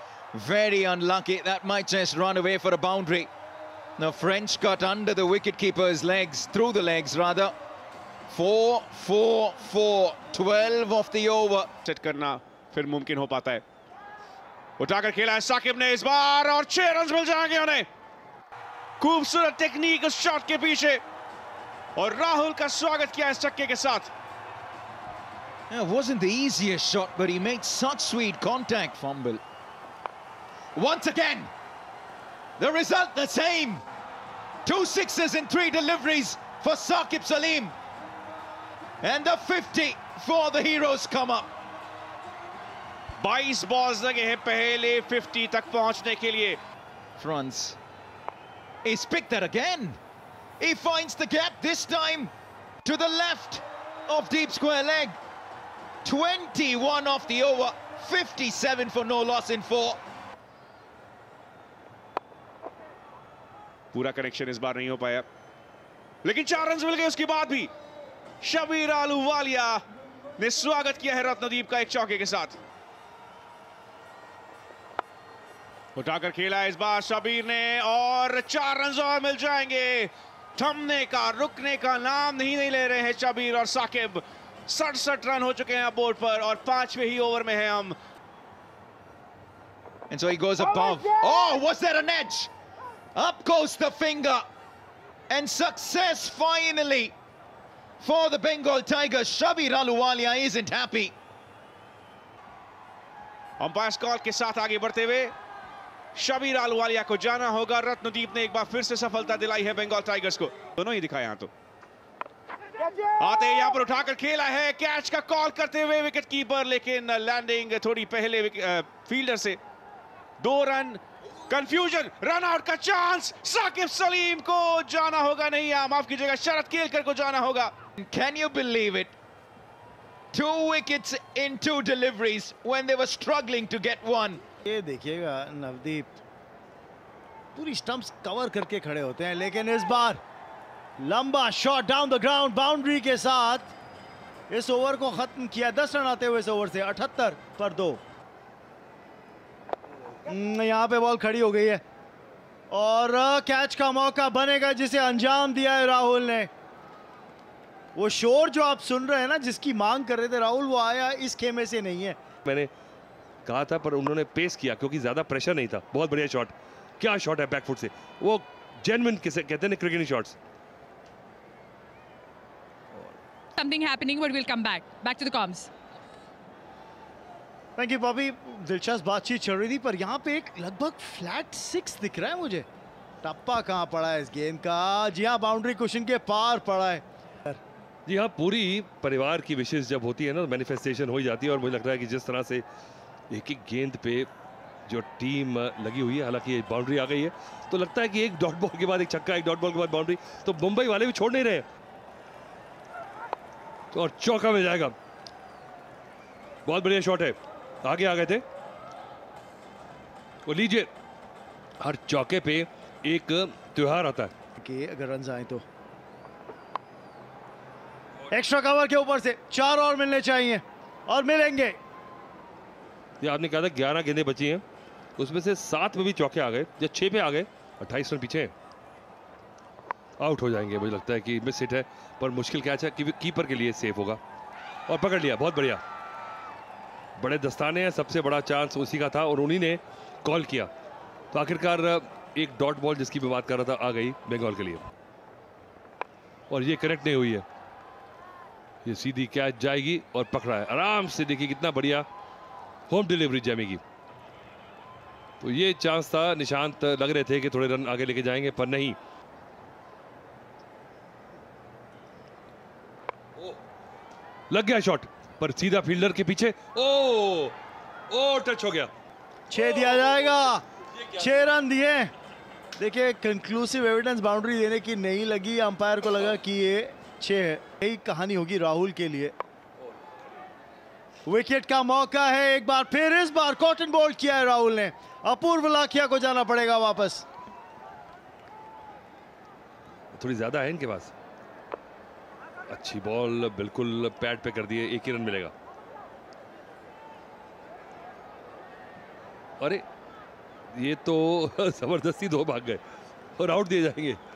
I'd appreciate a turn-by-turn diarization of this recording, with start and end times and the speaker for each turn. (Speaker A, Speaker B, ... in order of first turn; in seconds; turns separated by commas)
Speaker A: 0.3-3.3, Speaker A: 4.0-7.5, Speaker A: 8.3-11.7, Speaker B: 11.8-13.6, Speaker B: 14.8-17.9, Speaker B: 19.0-21.0, Speaker B: 22.0-24.1, Speaker A: 25.7-29.4, Speaker A: 30.7-31.5, Speaker A: 32.6-33.8, Speaker A: 34.6-37.7, Speaker A: 39.0-41.5, Speaker B: 43.2-46.6, Speaker A: 47.2-47.8, Speaker A: 48.8-50.0, Speaker A: 50.6-52.3, Speaker A: 52.8-55.2, Speaker A: 56.0-60.0, Speaker B: 63.9-65.2, Speaker B: 66.2-67.7, Speaker B: 68.4-69.8, Speaker B: 70.4-72.6, Speaker B: 76.0-88.0, Speaker A: 90.1-92.5, Speaker A: 93.1-94.5, Speaker A: 95.3-97.1, Speaker A: 98.0-101.1, Speaker B: 103.6-105.3, Speaker B: 106.2-111.5, Speaker B: 113.2-119.6, Speaker B: 120.4-127.7, Speaker A: 128.0-129.1, Speaker A: 130.3-134.4, Speaker C: 134.6-136.2, Speaker C: 137.5-140.2, Speaker C: 141.0-143.7, Speaker C: 144.5-148.0, Speaker C: 150.2-151.8, Speaker C: 152.7-156.5, Speaker C: 157.9-162.2, Speaker D: 162.4-162.7, Speaker D: 163.4-170.4, Speaker E: 173.6-175.7, Speaker C: 177.8-182.7, Speaker C: 183.2-187.6, Speaker D: 188.1-192.6, Speaker D: 193.3-194.3, Speaker D: 194.9-201.7, Speaker D: 203.9-204.9, Speaker D: 206.7-208.4, Speaker D: 210.4-210.9, Speaker D: 211.8-214.3, Speaker C: 214.6-215.6, Speaker C: 218.3-221.8, Speaker D: 223.2-224.6, Speaker D: 225.2-228.5, Speaker D: 230.2-234.2, Speaker D: 234.9-235.8, Speaker D: 237.2-240.7, Speaker D: 241.3-244.8, Speaker D: 246.5-247.4, Speaker D: 248.8-252.1, Speaker D: 252.9-253.8, Speaker D: 255.4-259.0, Speaker D: 264.5-267.5, Speaker D: 268.1-268.9, Speaker C: 269.5-272.1, Speaker C: 272.8-279.3, Speaker C: 281.2-287.2, Speaker D: 290.1-291.1, Speaker D: 292.7-295.5, Speaker D: 299.6-299.8, Speaker D: 300.7-302.8, Speaker D: 303.4-304.2